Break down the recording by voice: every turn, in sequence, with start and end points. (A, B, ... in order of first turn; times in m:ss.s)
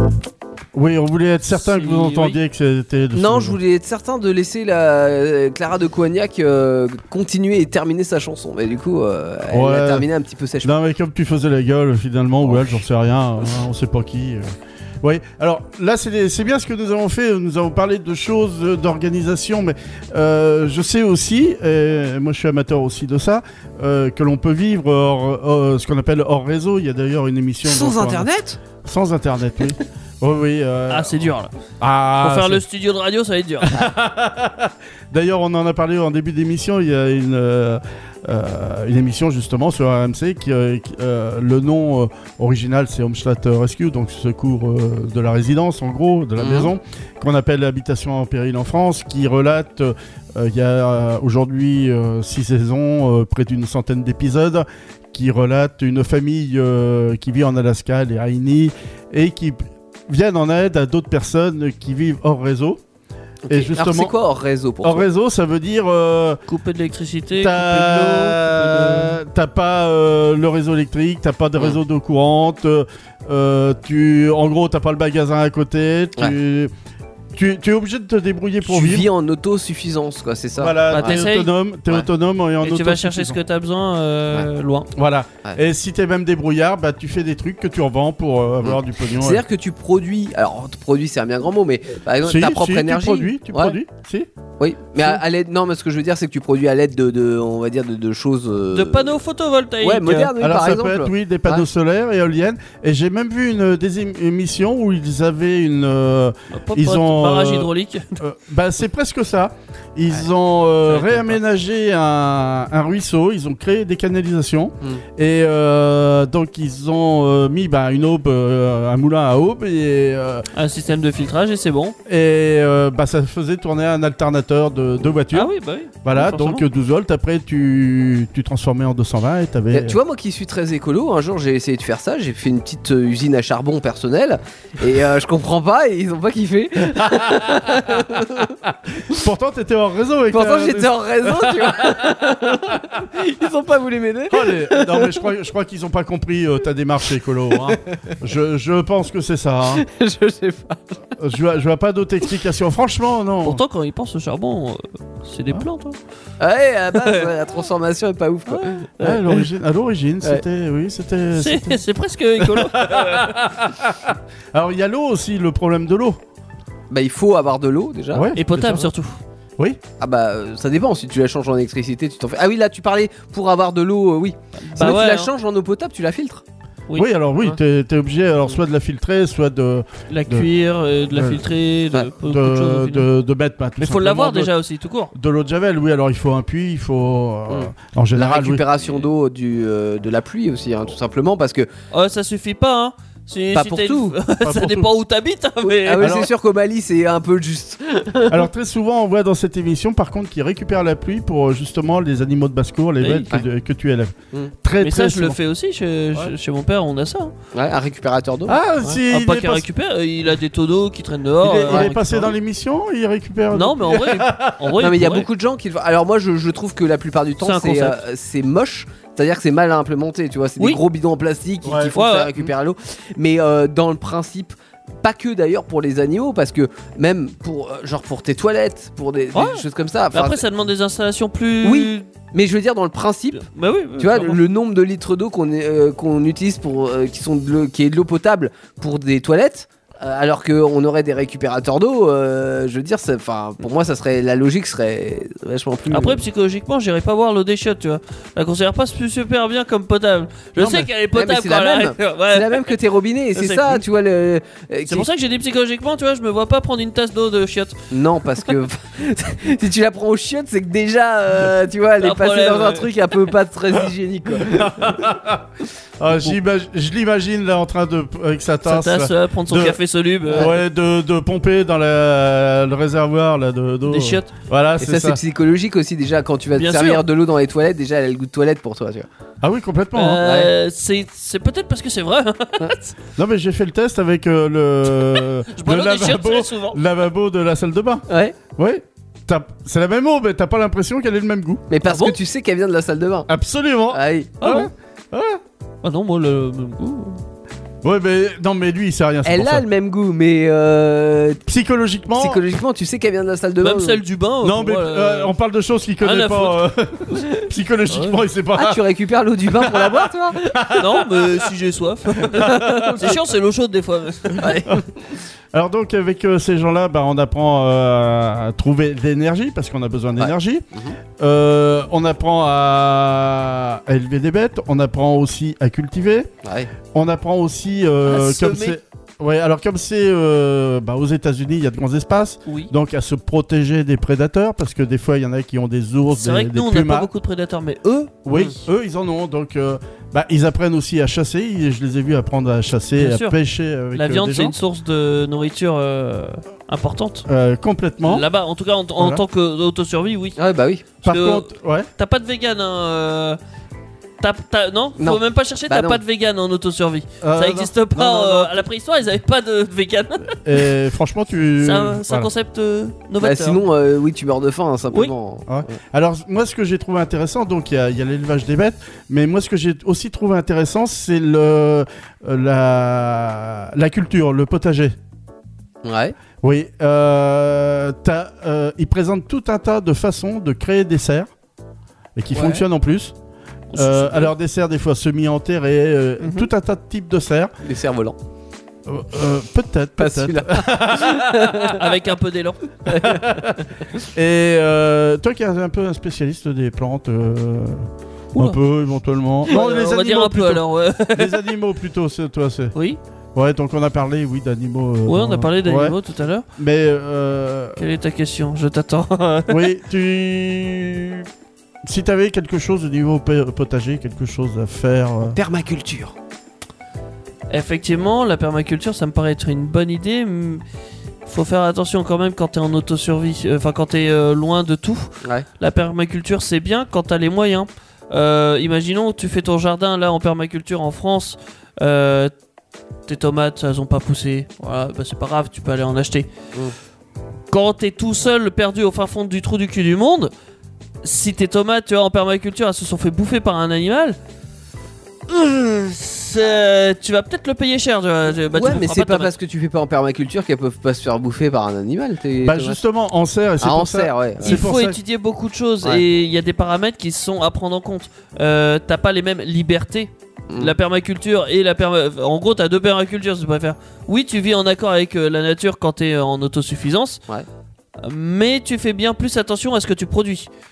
0:00.7-0:03.6 A
0:01.5-0:02.4 B
0:03.1-0:10.7 C
0:09.5-0:10.1 A
0:10.6-0:14.5 A
0:12.4-0:12.8 C
0:15.0-0:28.3 A
0:27.6-0:28.6 C
0:28.8-0:32.6 A
0:30.9-0:31.5 B
0:32.2-0:33.8 B
0:33.7-1:02.8 A
0:46.4-0:46.7 C
1:03.5-1:05.1 C
1:03.5-1:04.1 A
1:04.8-1:06.4 A
1:06.5-1:09.2 B
1:07.4-1:16.7 A
1:17.3-1:19.1 A
1:18.6-1:21.2 C
1:20.6-1:23.4 A
1:20.9-1:21.5 B
1:22.6-1:24.9 B
1:24.9-1:29.4 A
1:28.6-1:33.8 C
1:32.2-1:34.3 A
1:34.6-1:39.2 C
1:38.7-1:40.3 B
1:39.8-1:41.6 C
1:40.4-2:00.5 A
1:46.5-1:48.2 B
1:50.9-1:51.4 B
2:00.5-2:02.0 B
2:02.1-2:05.5 A
2:05.3-2:06.6 B
2:06.0-2:10.0 A
2:09.7-2:18.6 C
2:17.0-2:17.9 A
2:18.6-2:22.2 A
2:20.3-2:25.3 C
2:24.3-2:29.8 A
2:29.7-2:30.9 C
2:31.2-2:33.6 A
2:33.4-2:36.0 B
2:36.4-2:39.4 C
2:37.0-2:37.3 B
2:38.5-2:39.1 B
2:39.0-2:41.8 A
2:41.3-2:43.4 B
2:42.4-2:46.2 A
2:46.9-2:48.3 C
2:48.1-2:48.9 A
2:48.4-2:49.2 B
2:50.0-2:56.4 C
2:54.7-2:55.3 B
2:57.0-3:00.5 A
3:00.1-3:03.1 B
3:01.1-3:01.4 A
3:02.2-3:04.5 A
3:03.8-3:05.1 B
3:05.1-3:08.6 A
3:07.5-3:11.7 C
3:11.9-3:16.3 B
3:13.5-3:14.2 C
3:14.4-3:14.9 A
3:15.6-3:18.4 C
3:16.0-3:16.3 A
3:18.3-3:25.4 A
3:23.0-3:23.3 B
3:24.8-3:27.3 B
3:27.5-3:29.0 C
3:28.5-3:29.6 A
3:29.1-3:32.4 B
3:31.4-3:34.8 A
3:33.5-3:35.3 B
3:34.8-3:50.4 C
3:37.4-3:38.0 B
3:41.6-3:41.9 A
3:41.9-3:42.5 B
3:49.3-3:52.1 B
3:51.6-3:53.4 C
3:53.4-3:54.4 B
3:54.0-4:06.2 C
4:05.9-4:12.8 B
4:10.6-4:15.1 C
4:13.4-4:13.8 B
4:14.9-4:17.8 B
4:17.9-4:25.0 C
4:22.0-4:22.9 B
4:24.4-4:25.5 A
4:26.0-4:29.8 A
4:28.6-4:30.5 B
4:30.3-4:35.2 A
4:33.9-4:34.3 B
4:34.8-4:39.1 C
4:36.6-4:37.0 B
4:39.4-4:40.2 A
4:39.9-4:43.0 B
4:40.2-4:40.5 C
4:43.2-4:51.7 A
4:45.2-4:46.8 B
4:48.1-4:48.4 C
4:51.7-4:53.3 C
4:51.8-4:52.2 B
4:53.3-4:55.4 A
4:53.9-4:54.4 C
4:54.4-4:54.7 B
4:55.8-4:57.2 B
4:57.8-4:59.6 A
4:59.2-5:01.4 C
5:01.5-5:02.4 A
5:02.1-5:04.0 C
5:03.6-5:05.3 B
5:04.4-5:08.8 A
5:06.0-5:06.7 B
5:07.9-5:08.2 B
5:08.5-5:10.5 C
5:09.6-5:11.5 A
5:10.7-5:14.6 B
5:12.3-5:12.7 A
5:12.4-5:13.2 C
5:14.4-5:14.8 C
5:15.5-5:20.7 A
5:20.2-5:21.0 C
5:21.2-5:26.3 A
5:26.4-5:26.7 C
5:26.9-5:37.1 A
5:28.1-5:28.8 B
5:32.5-5:32.7 B
5:36.1-5:38.5 B
5:38.2-5:44.6 A
5:43.0-5:43.4 B
5:43.9-5:47.2 B
5:47.3-5:48.3 A
5:48.0-5:50.4 B
5:49.0-5:49.2 A
5:50.4-5:50.8 C
5:51.0-5:53.4 B
5:51.0-5:51.9 A
5:54.2-6:00.5 B
5:55.0-5:56.0 C
5:57.2-5:58.7 A
6:00.4-6:02.3 A
6:01.6-6:03.6 B
6:03.2-6:05.8 C
6:05.5-6:15.0 A
6:15.8-6:16.2 C
6:16.4-6:21.3 A
6:22.2-6:23.1 A
6:22.3-6:22.6 C
6:23.7-6:24.3 B
6:23.7-6:27.5 A
6:26.2-6:26.5 B
6:27.6-6:28.2 C
6:28.9-6:31.6 A
6:30.0-6:31.9 C
6:31.6-6:32.8 B
6:32.9-6:33.6 C
6:33.0-6:33.6 A
6:34.1-6:42.7 A
6:39.4-6:41.5 B
6:43.4-6:46.0 A
6:45.1-6:46.4 B
6:46.6-6:47.8 A
6:47.8-6:49.7 B
6:49.5-6:51.3 A
6:51.8-6:55.4 A
6:55.2-6:56.2 C
6:57.5-7:00.6 B
7:01.2-7:12.3 B
7:13.1-7:16.3 B
7:17.5-7:20.3 B
7:21.0-7:24.2 B
7:25.3-7:29.3 B
7:28.5-7:32.8 C
7:32.4-7:35.0 A
7:33.6-7:34.6 C
7:34.4-7:47.2 B
7:40.5-7:40.8 C
7:48.0-7:50.5 B